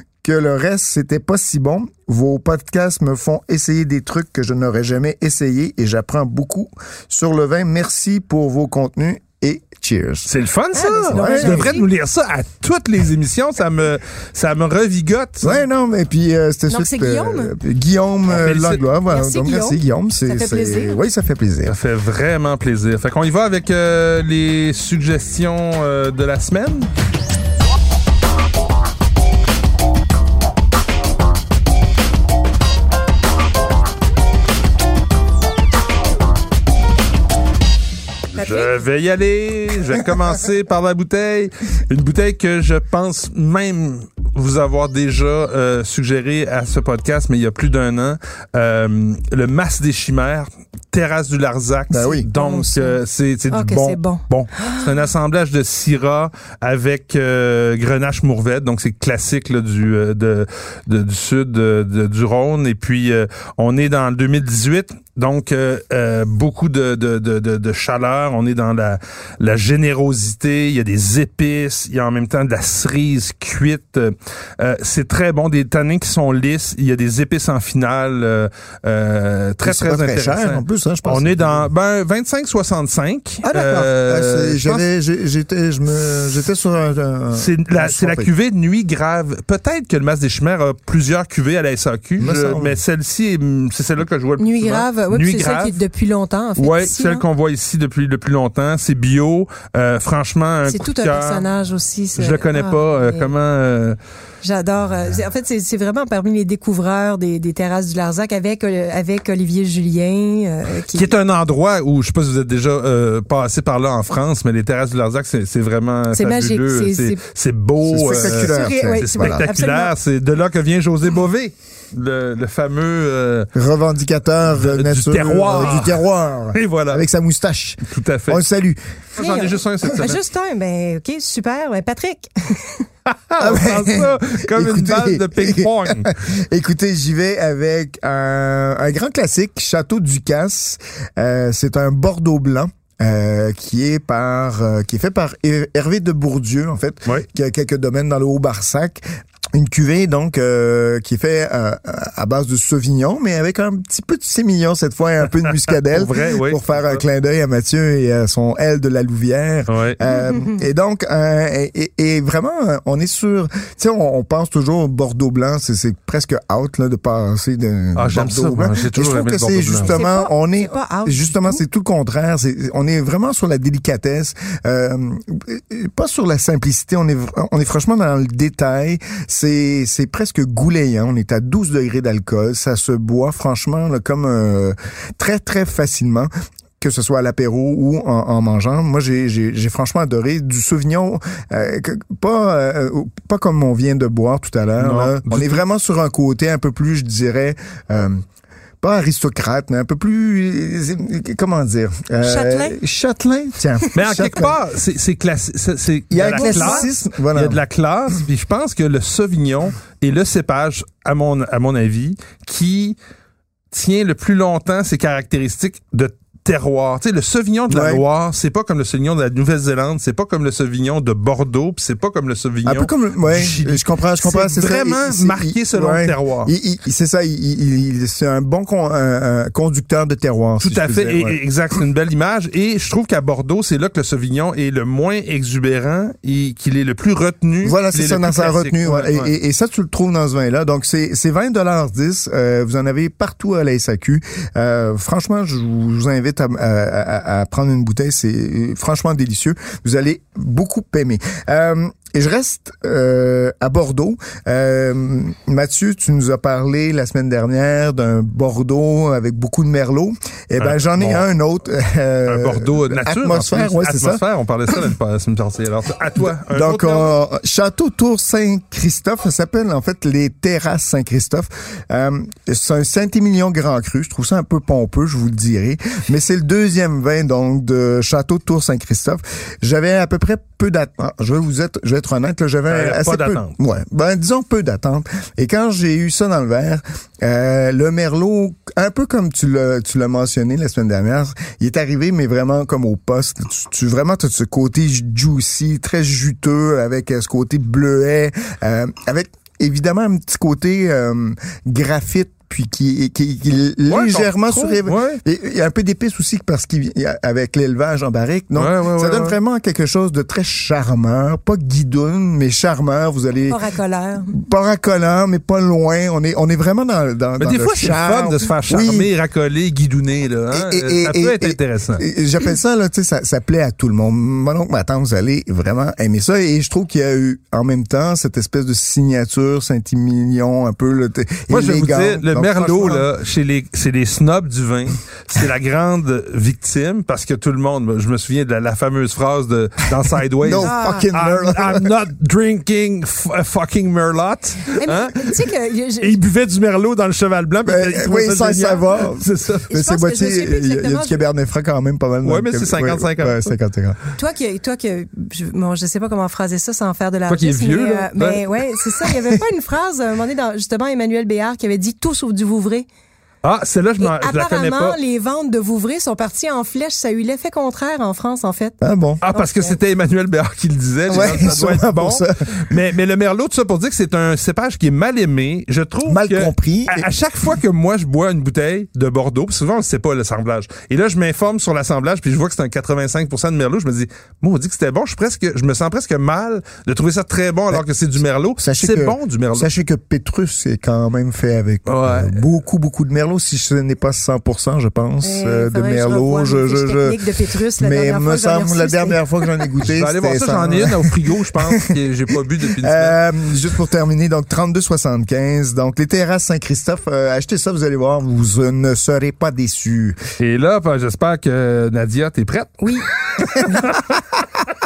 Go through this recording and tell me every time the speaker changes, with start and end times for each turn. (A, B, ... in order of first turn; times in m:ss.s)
0:00.2-0:10.3 A
0:10.2-0:15.6 B
0:10.7-0:11.9 C
0:11.1-0:11.7 A
0:15.4-0:21.8 A
0:16.7-0:17.5 C
0:18.3-0:18.8 B
0:19.1-0:21.0 C
0:21.6-0:26.9 B
0:38.4-0:38.8 C
0:38.4-1:24.8 B
0:51.9-0:52.3 A
0:52.3-0:53.0 C
0:53.5-0:55.0 C
1:19.6-1:21.7 A
1:23.4-1:28.3 A
1:27.3-1:35.8 B
1:32.2-1:32.8 A
1:34.4-1:37.2 C
1:36.6-1:41.4 B
1:40.7-1:43.3 C
1:42.2-1:44.0 B
1:44.4-1:51.2 C
1:50.9-2:03.5 B
1:56.1-1:57.2 C
1:57.9-1:59.5 A
1:58.1-1:59.9 C
2:03.5-2:08.8 A
2:04.5-2:07.0 B
2:07.8-2:08.4 B
2:09.2-2:10.2 B
2:09.2-2:12.9 C
2:13.1-2:16.1 B
2:13.4-2:29.0 A
2:29.5-3:18.2 A
2:35.9-2:37.0 B
2:39.7-2:40.0 B
2:40.3-2:40.6 C
2:48.0-2:50.0 B
2:49.9-2:51.6 C
3:14.8-3:15.6 B
3:18.8-3:24.6 A
3:22.2-3:22.8 C
3:23.9-3:33.0 B
3:26.1-3:27.6 A
3:26.3-3:26.8 C
3:33.7-3:46.5 B
3:37.7-3:38.0 A
3:42.6-3:51.4 A
3:50.6-3:59.3 B
3:57.6-4:24.2 A
4:20.6-4:21.3 B
4:22.3-4:27.1 B
4:26.2-5:13.6 A
4:42.7-4:43.5 B
5:03.9-5:05.2 B
5:08.5-5:09.4 B
5:13.5-5:14.3 C
5:14.3-5:19.1 A
5:17.4-5:22.0 B
5:20.5-5:33.1 A
5:31.5-5:45.3 B
5:40.4-5:41.9 A
5:40.6-5:41.1 C
5:44.7-5:46.2 C
5:46.0-5:49.7 B
5:47.6-5:54.0 A
5:49.7-5:51.2 C
5:52.2-5:53.5 B
5:54.2-6:02.9 C
5:57.3-5:58.6 B
6:03.4-6:05.0 B
6:04.0-6:08.8 C
6:08.8-6:09.2 A
6:09.2-6:29.7 B
6:09.3-6:09.8 C
6:11.1-6:12.7 A
6:16.0-6:17.1 A
6:28.6-6:37.2 A
6:31.9-6:32.4 B
6:35.2-6:39.7 C
6:37.8-6:41.9 A
6:39.8-6:43.2 B
6:42.8-6:50.2 A
6:50.4-6:52.9 B
6:52.8-6:53.1 C
6:53.5-6:54.1 B